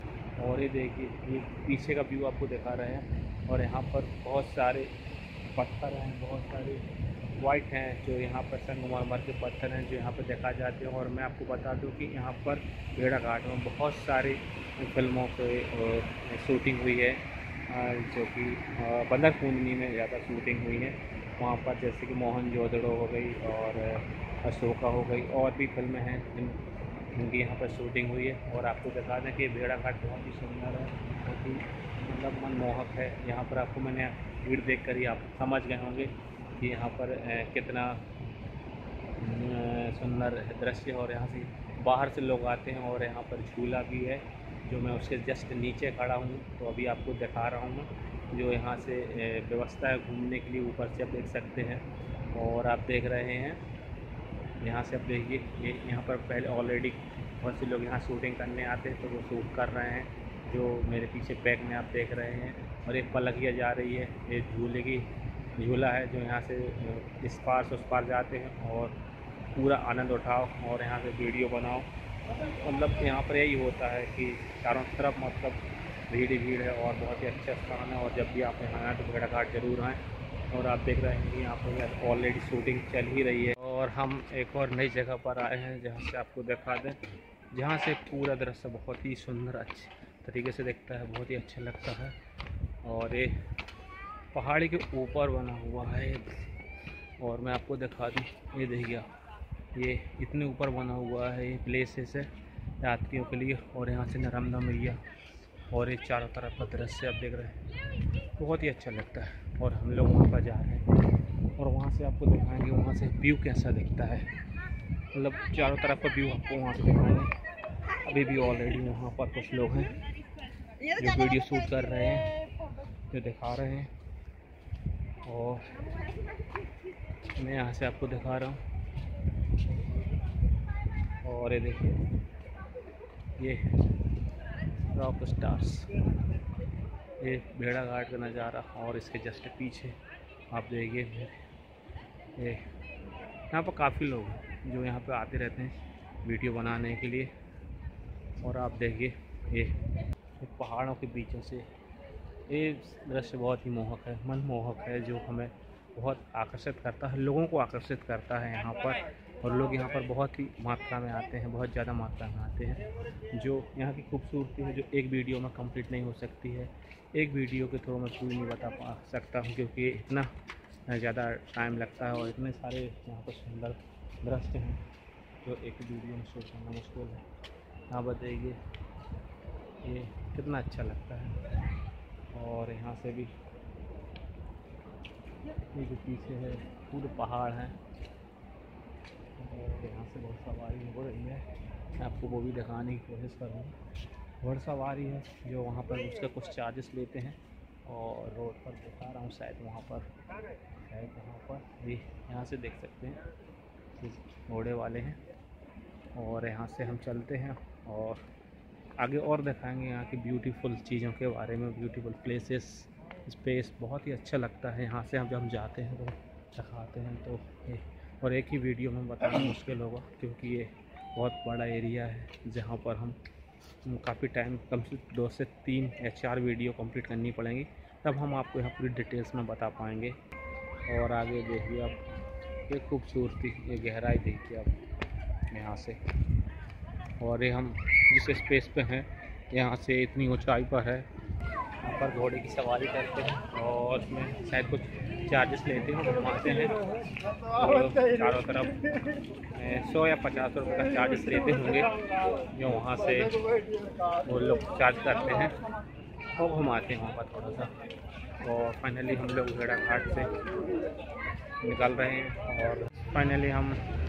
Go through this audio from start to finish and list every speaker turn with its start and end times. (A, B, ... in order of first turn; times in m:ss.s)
0:00.4-0:04.9 A
0:05.6-0:26.6 A
0:27.1-0:38.0 A
0:39.2-0:53.6 A
0:54.6-1:08.9 A
1:09.6-1:11.9 A
1:12.6-1:20.0 A
1:20.5-1:27.0 A
1:27.5-1:32.1 A
1:32.8-1:33.3 A
1:34.3-1:36.3 A
1:37.2-1:39.1 A
1:39.7-1:42.3 A
1:42.8-1:45.0 A
1:45.7-1:47.6 A
1:48.4-1:50.8 A
1:51.6-1:54.2 A
1:55.1-1:57.3 A
1:58.0-2:00.0 A
2:01.0-2:02.3 A
2:03.1-2:03.9 A
2:05.2-2:05.7 A
2:07.4-2:08.6 A
2:11.2-2:12.0 A
2:14.9-2:15.9 A
2:17.2-2:20.0 A
2:20.5-2:21.3 A
2:23.5-2:25.7 A
2:26.2-2:27.3 A
2:28.4-2:29.8 A
2:30.4-2:31.6 A
2:32.5-2:50.3 A
2:50.9-2:54.8 A
2:55.4-2:57.2 A
2:57.9-2:58.6 A
2:59.8-3:01.4 A
3:02.3-3:03.3 A
3:05.7-3:07.8 A
3:09.4-3:11.4 A
3:12.0-3:13.8 A
3:14.4-3:20.0 A
3:20.8-3:23.2 A
3:24.0-3:25.2 A
3:26.1-3:28.2 A
3:29.0-3:43.2 A
3:43.8-3:50.2 A
3:50.9-3:52.0 A
3:52.7-3:54.7 A
3:55.5-3:56.0 A
3:57.2-4:01.1 A
4:01.8-4:06.8 A
4:07.5-4:08.8 A
4:09.5-4:11.9 A
4:12.5-4:13.4 A
4:14.2-4:15.5 A
4:16.4-4:17.7 A
4:18.4-4:20.3 A
4:21.6-4:23.8 A